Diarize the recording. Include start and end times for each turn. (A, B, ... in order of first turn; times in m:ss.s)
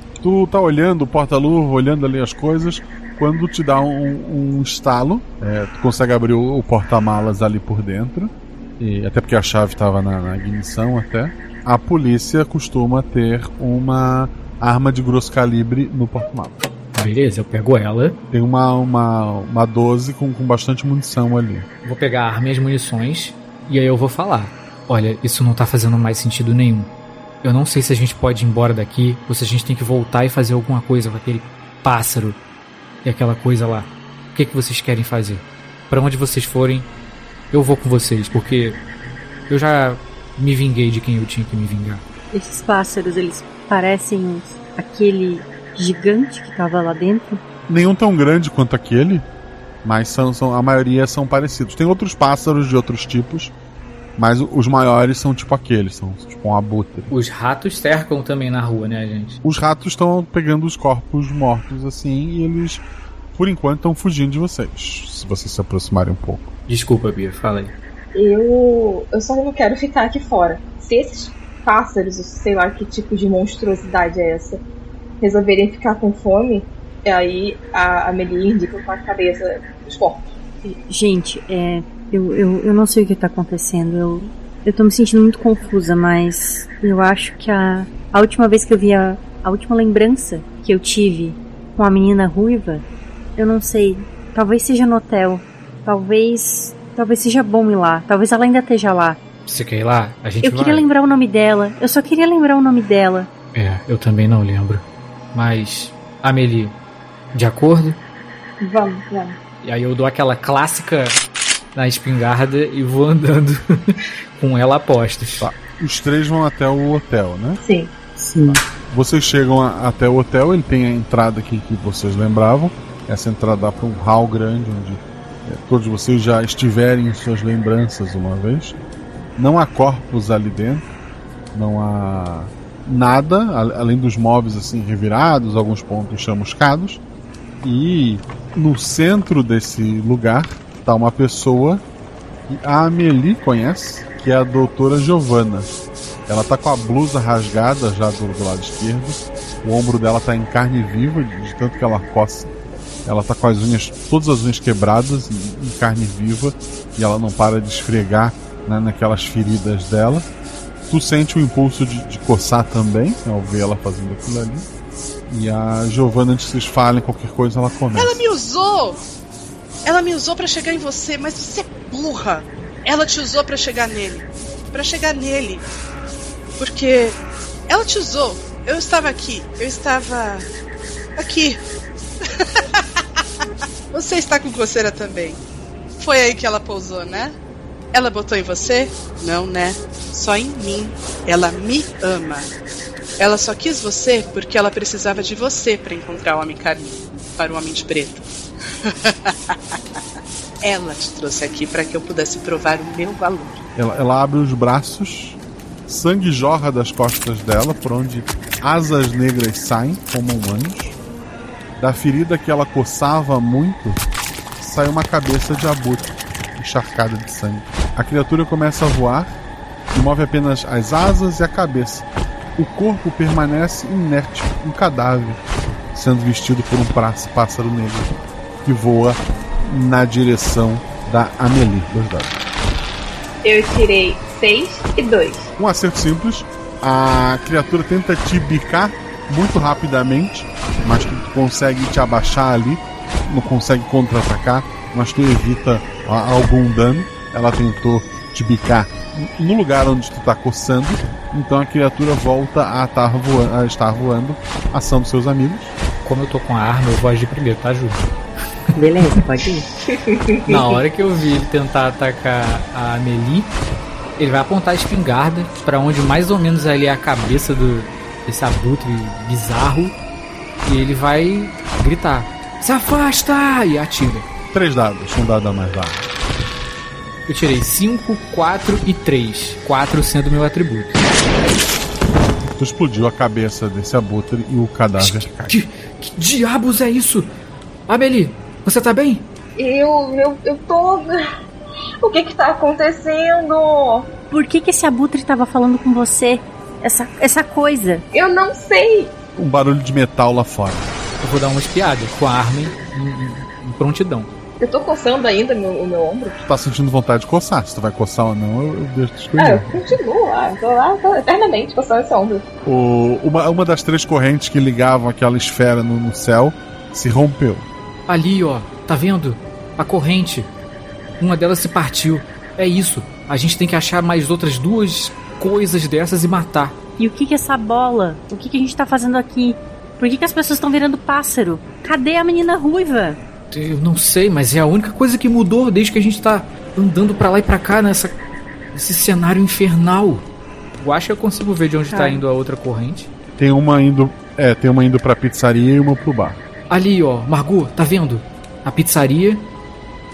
0:00.2-0:16.7 A
0:16.9-0:18.2 B
0:18.3-0:21.7 A
0:21.8-0:26.9 B
0:27.4-0:32.4 B
0:33.0-0:36.9 B
0:37.5-0:38.8 B
0:39.5-0:42.0 B
0:42.3-0:47.4 C
0:47.7-0:49.3 A
0:49.8-0:53.5 A
0:54.2-0:57.1 A
0:57.1-0:59.4 B
0:59.4-1:02.8 A
1:03.4-1:06.5 A
1:06.7-1:07.7 B
1:08.1-1:14.6 D
1:15.2-1:20.7 D
1:20.9-1:32.9 C
1:33.4-1:39.2 C
1:39.5-1:40.9 B
1:40.4-1:43.3 C
1:43.5-1:46.8 B
1:47.3-1:48.0 B
1:48.6-1:49.4 D
1:49.6-1:51.2 B
1:51.8-1:55.5 B
1:55.4-1:57.6 A
1:57.6-1:57.9 D
1:58.2-1:58.6 C
1:58.9-2:08.8 A
2:09.4-2:10.9 A
2:11.5-2:17.0 A
2:17.6-2:21.8 A
2:22.5-2:25.7 A
2:26.3-2:32.5 A
2:33.0-2:40.3 A
2:40.9-2:44.7 A
2:45.3-2:48.2 A
2:47.9-2:49.0 E
2:49.8-2:55.6 E
2:56.6-2:57.2 E
2:57.7-3:00.5 E
3:01.2-3:01.6 E
3:03.9-3:05.4 E
3:06.0-3:07.4 E
3:07.9-3:12.5 E
3:13.2-3:18.3 E
3:18.8-3:19.4 E
3:20.6-3:23.6 E
3:23.8-3:31.0 A
3:31.8-3:34.0 A
3:34.6-3:39.4 A
3:39.9-3:45.4 A
3:45.9-3:48.1 A
3:48.6-3:52.4 A
3:53.4-3:55.5 D
3:55.6-4:15.7 A
4:16.0-4:18.1 B
4:18.8-4:19.7 C
4:19.9-4:20.8 D
4:20.4-4:23.6 B
4:24.2-4:30.0 B
4:30.7-4:34.2 B
4:34.5-4:36.1 A
4:37.3-4:41.0 B
4:42.6-4:45.6 A
4:45.0-4:47.3 B
4:47.9-4:49.3 B
4:49.6-4:51.2 D
4:52.0-4:54.1 D
4:54.3-4:58.0 C
4:58.1-4:59.1 D
4:59.4-5:00.9 A
5:01.2-5:04.3 B
5:04.6-5:06.4 D
5:06.4-5:10.0 A
5:09.4-5:12.4 D
5:12.6-5:17.7 A
5:18.1-5:20.5 B
5:21.2-5:26.8 B
5:27.0-5:33.2 C
5:33.5-5:38.2 B
5:38.7-5:40.3 B
5:40.8-5:43.1 B
5:41.9-5:42.2 C
5:43.4-5:46.4 A
5:46.7-5:49.5 B